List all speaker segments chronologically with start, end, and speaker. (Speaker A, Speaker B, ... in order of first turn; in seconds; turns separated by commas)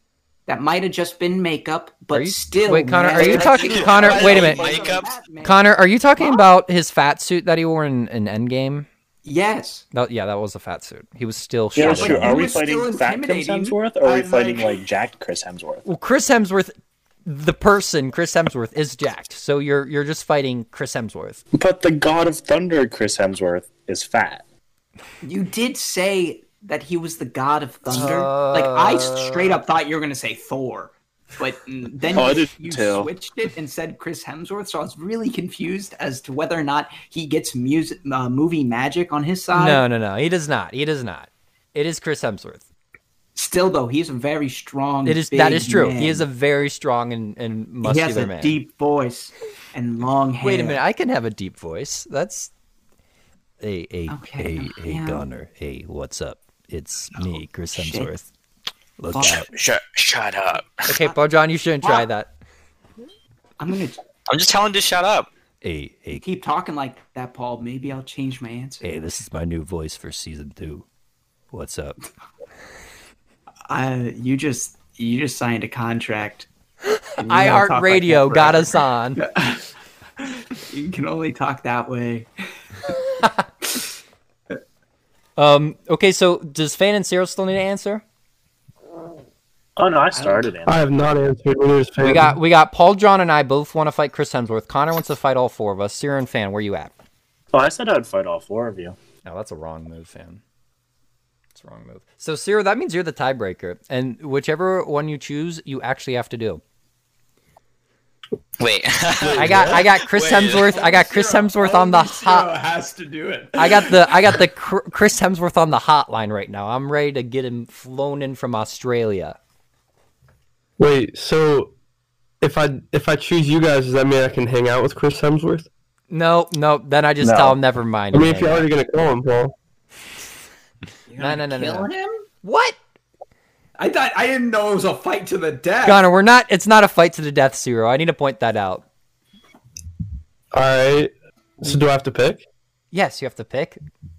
Speaker A: 0.5-5.6, Speaker B: 2.1-4.7, Speaker C: 3.1-5.2, Speaker D: 4.1-4.6, Speaker B: 5.4-8.9, Speaker A: 6.2-6.5, Speaker A: 9.2-9.8, Speaker B: 9.9-12.6, Speaker D: 11.8-15.8, Speaker A: 11.8-14.8, Speaker B: 15.8-16.7, Speaker B: 17.3-21.4, Speaker D: 21.5-24.4, Speaker A: 25.2-39.8, Speaker B: 27.9-29.6, Speaker D: 32.1-33.1, Speaker B: 39.5-42.7, Speaker A: 43.4-46.3, Speaker B: 45.0-48.6, Speaker A: 47.8-50.8, Speaker B: 50.4-52.5, Speaker B: 53.6-58.3, Speaker A: 54.1-55.2, Speaker A: 57.7-58.1, Speaker B: 59.0-59.5, Speaker A: 59.1-59.5, Speaker C: 59.2-60.9, Speaker B: 60.9-62.3, Speaker A: 63.6-64.0, Speaker C: 64.3-65.3, Speaker B: 65.6-66.3, Speaker A: 66.2-68.9, Speaker B: 68.8-70.8, Speaker B: 71.5-72.0, Speaker A: 73.7-76.5, Speaker B: 76.9-79.2, Speaker A: 77.2-82.3, Speaker B: 85.4-88.0, Speaker D: 89.8-90.8, Speaker A: 90.1-90.5, Speaker E: 90.7-92.4, Speaker B: 92.0-96.9, Speaker D: 97.5-99.0, Speaker B: 99.2-100.4, Speaker B: 101.5-106.6, Speaker C: 108.6-110.8, Speaker E: 109.3-109.8, Speaker B: 109.3-112.5, Speaker A: 110.5-114.4, Speaker B: 113.6-119.4, Speaker E: 120.8-121.7, Speaker E: 122.4-125.7, Speaker B: 126.1-128.7, Speaker D: 127.2-127.6, Speaker E: 128.1-129.5, Speaker A: 131.1-132.2, Speaker B: 131.2-131.9, Speaker B: 132.4-132.8, Speaker A: 133.8-136.0, Speaker B: 135.8-138.8, Speaker E: 140.5-142.4, Speaker B: 142.9-143.8